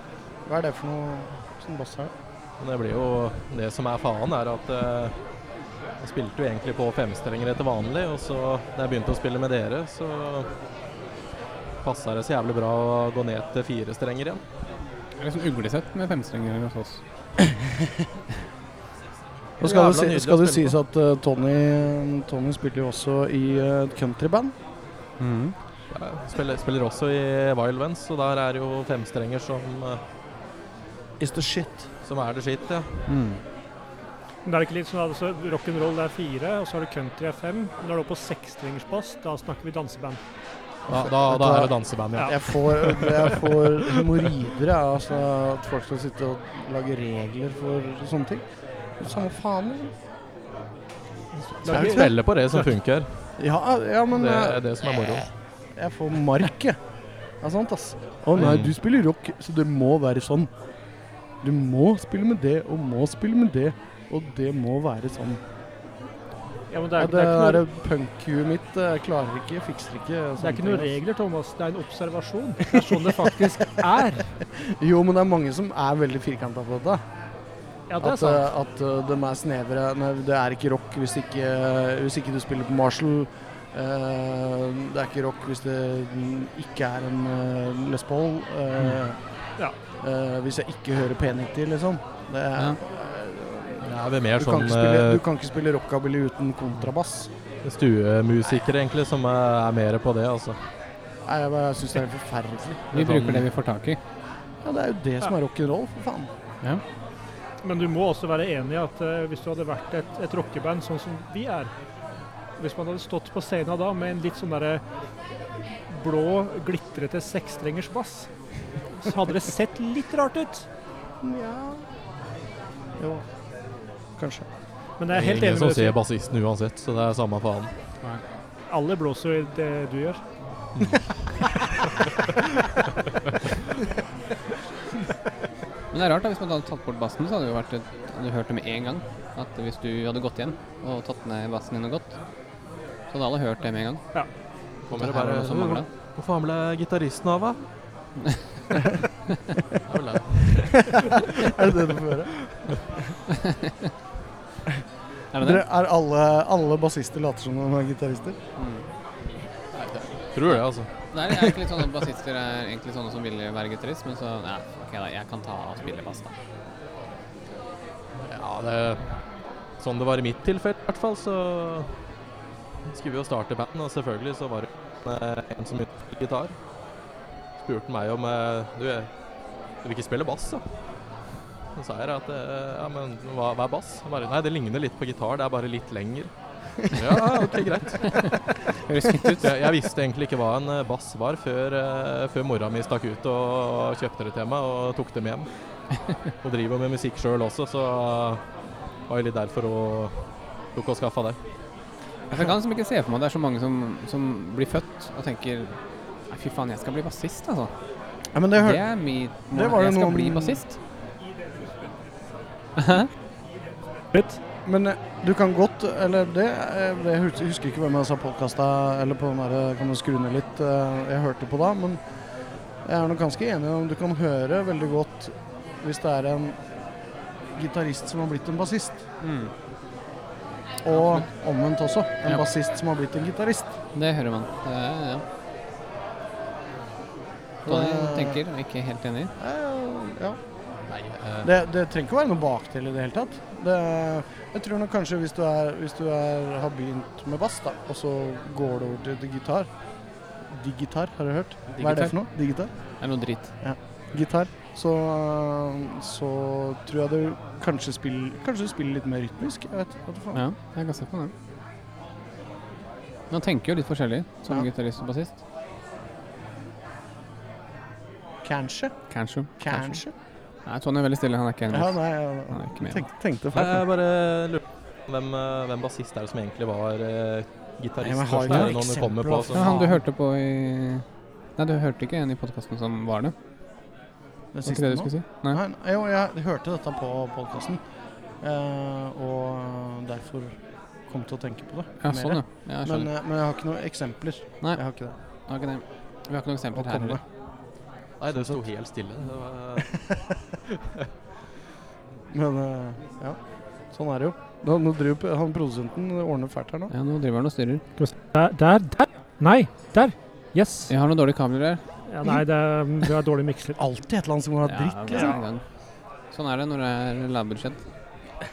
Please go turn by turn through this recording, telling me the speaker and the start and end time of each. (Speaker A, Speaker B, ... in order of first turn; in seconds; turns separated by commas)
Speaker A: 0.5-2.1, Speaker B: 2.6-5.1, Speaker B: 6.0-10.5, Speaker B: 11.8-14.4, Speaker C: 15.2-17.0, Speaker A: 19.6-24.5, Speaker B: 19.6-20.8, Speaker C: 25.2-25.5, Speaker B: 25.9-30.0, Speaker A: 31.2-31.9, Speaker B: 32.0-33.0, Speaker C: 33.1-33.4, Speaker D: 34.4-40.2, Speaker B: 40.9-44.0, Speaker A: 40.9-48.4, Speaker A: 49.0-49.9, Speaker D: 51.4-52.1, Speaker B: 51.6-53.3, Speaker A: 51.7-52.1, Speaker A: 53.4-54.6, Speaker B: 54.1-55.3, Speaker A: 55.7-56.8, Speaker A: 57.4-60.5, Speaker B: 58.4-58.8, Speaker A: 61.4-65.4, Speaker D: 66.7-67.6, Speaker A: 67.0-70.9, Speaker D: 70.4-74.3, Speaker A: 74.5-77.0, Speaker D: 77.9-78.5, Speaker A: 78.0-89.2, Speaker A: 90.0-97.3, Speaker B: 93.8-95.2, Speaker B: 97.6-100.6, Speaker A: 101.2-102.8, Speaker B: 102.9-103.4, Speaker C: 102.9-104.0, Speaker A: 104.6-106.3, Speaker D: 107.6-111.7, Speaker D: 112.6-114.8, Speaker D: 115.9-118.3, Speaker D: 119.0-120.7, Speaker A: 121.2-121.8, Speaker A: 123.0-123.2, Speaker A: 124.2-124.5, Speaker D: 125.0-126.0, Speaker B: 125.1-127.7, Speaker D: 128.7-130.2, Speaker C: 135.9-142.2, Speaker C: 143.1-144.0, Speaker B: 144.9-147.6, Speaker C: 144.9-145.8, Speaker B: 149.9-151.5, Speaker A: 151.3-152.8, Speaker C: 153.3-153.9, Speaker C: 155.3-155.6, Speaker A: 155.4-158.4, Speaker C: 158.6-158.8, Speaker B: 159.7-160.9, Speaker C: 161.1-166.3, Speaker B: 168.2-169.1, Speaker B: 169.8-171.9, Speaker B: 172.9-176.5, Speaker B: 177.6-179.1, Speaker B: 179.8-180.6, Speaker B: 181.8-188.3, Speaker C: 188.1-189.5, Speaker B: 189.4-195.5, Speaker B: 196.4-198.4, Speaker B: 199.1-200.2, Speaker B: 200.7-201.4, Speaker C: 202.3-205.8, Speaker C: 206.3-207.7, Speaker A: 208.3-209.0, Speaker C: 208.6-210.7, Speaker A: 209.5-210.6, Speaker D: 211.6-212.0, Speaker C: 212.8-213.1, Speaker D: 214.1-214.4, Speaker A: 214.6-222.0, Speaker A: 222.8-226.6, Speaker A: 227.5-229.0, Speaker C: 229.2-229.5, Speaker A: 230.8-233.7, Speaker C: 230.9-231.2, Speaker C: 233.9-235.2, Speaker A: 237.6-238.4, Speaker C: 237.7-239.3, Speaker A: 239.4-240.4, Speaker B: 240.9-241.5, Speaker A: 241.4-249.7, Speaker A: 250.4-252.7, Speaker C: 251.8-252.2, Speaker C: 253.0-253.5, Speaker A: 253.6-260.4, Speaker C: 260.3-261.3, Speaker C: 263.3-265.4, Speaker A: 268.4-268.9, Speaker C: 269.1-270.0, Speaker A: 269.6-270.1, Speaker C: 270.6-272.0, Speaker A: 271.7-273.8, Speaker C: 272.5-273.0, Speaker B: 273.5-279.7, Speaker A: 278.0-280.0, Speaker C: 279.5-281.0, Speaker C: 281.6-283.3, Speaker A: 284.5-287.8, Speaker C: 284.6-285.6, Speaker A: 288.4-290.5, Speaker A: 291.1-295.1, Speaker C: 292.0-293.1, Speaker C: 295.5-297.2, Speaker A: 296.7-297.2, Speaker B: 298.2-300.0, Speaker A: 302.3-303.4, Speaker A: 303.9-306.9, Speaker C: 306.9-307.8, Speaker D: 308.0-310.9, Speaker C: 310.9-311.8, Speaker D: 312.1-313.8, Speaker A: 313.8-315.4, Speaker C: 314.6-315.6, Speaker C: 316.3-317.8